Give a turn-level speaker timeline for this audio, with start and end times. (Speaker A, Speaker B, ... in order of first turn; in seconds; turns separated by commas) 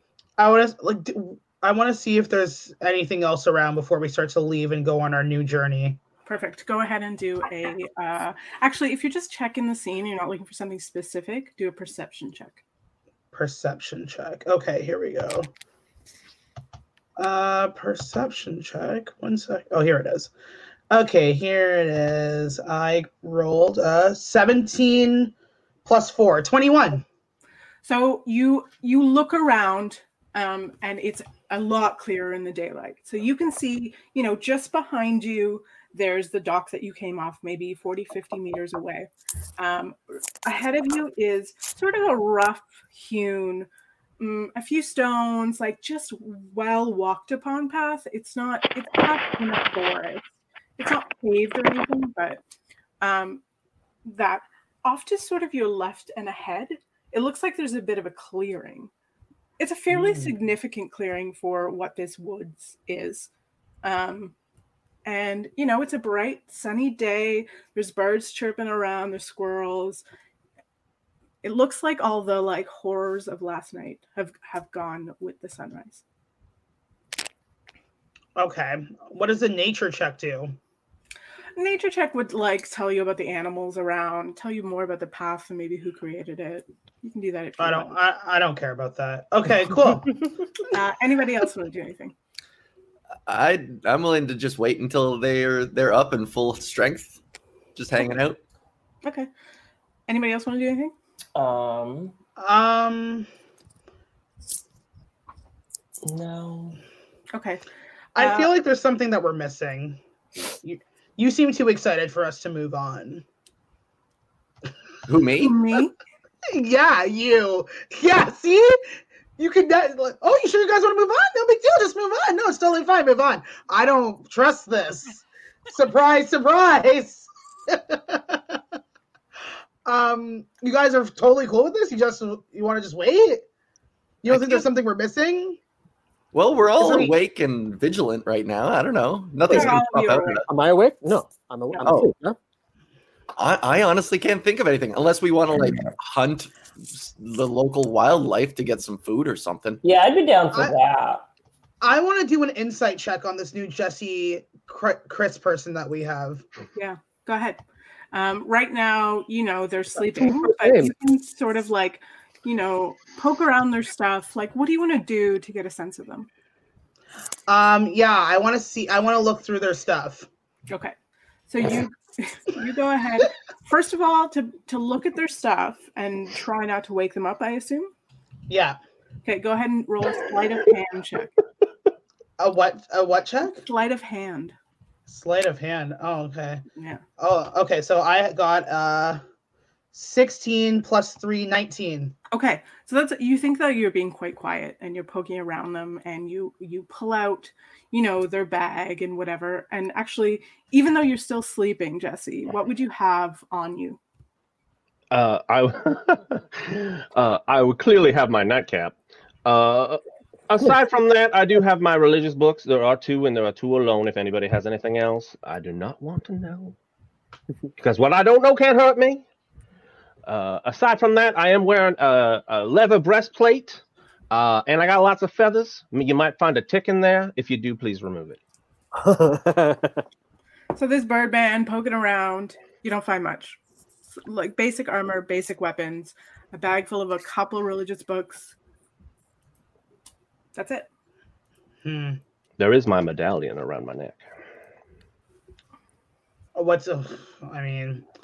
Speaker A: 0.4-6.0, Speaker B: 6.3-12.6, Speaker A: 13.3-15.5, Speaker A: 17.2-20.3, Speaker A: 20.9-25.3, Speaker A: 25.9-27.0, Speaker B: 27.8-43.7, Speaker B: 44.2-50.2, Speaker B: 50.8-52.4, Speaker B: 53.0-53.4, Speaker B: 54.0-58.9, Speaker B: 59.6-63.3, Speaker A: 60.0-60.3, Speaker B: 63.8-64.3, Speaker B: 65.0-70.0, Speaker B: 71.4-76.0, Speaker A: 78.4-80.5, Speaker B: 81.6-88.0, Speaker A: 87.6-90.4, Speaker B: 90.7-92.2, Speaker C: 93.3-97.2, Speaker C: 97.8-98.4, Speaker B: 99.0-99.3, Speaker B: 100.1-100.9, Speaker D: 101.3-102.2, Speaker A: 102.4-103.3, Speaker D: 106.0-106.8, Speaker B: 107.3-107.6, Speaker A: 108.2-110.0, Speaker B: 108.2-108.5, Speaker A: 110.6-113.2, Speaker C: 115.1-115.6, Speaker B: 115.4-115.9, Speaker A: 116.5-118.8, Speaker A: 119.4-128.6, Speaker A: 129.8-133.4, Speaker A: 134.2-135.6, Speaker C: 134.3-134.6, Speaker C: 136.3-140.5, Speaker A: 136.8-137.2, Speaker B: 139.4-140.5, Speaker E: 140.5-142.4, Speaker C: 141.8-142.1, Speaker C: 143.4-149.8, Speaker D: 149.8-151.2, Speaker A: 151.8-156.4, Speaker B: 156.8-157.6, Speaker B: 158.1-166.3, Speaker E: 159.9-160.9, Speaker A: 167.5-170.3, Speaker B: 170.7-170.9, Speaker B: 171.5-177.9, Speaker A: 178.5-178.8, Speaker B: 179.2-181.3, Speaker A: 182.4-183.6, Speaker B: 183.6-184.6, Speaker A: 185.1-186.6, Speaker B: 186.8-187.0, Speaker A: 187.2-189.2, Speaker A: 189.9-192.2, Speaker B: 192.3-204.0, Speaker F: 205.1-216.8, Speaker F: 217.8-219.2, Speaker F: 220.3-228.4, Speaker E: 228.9-230.0, Speaker B: 230.7-233.6, Speaker B: 234.1-238.5, Speaker B: 240.6-240.9, Speaker A: 241.8-242.2, Speaker F: 242.6-244.2, Speaker A: 246.6-248.1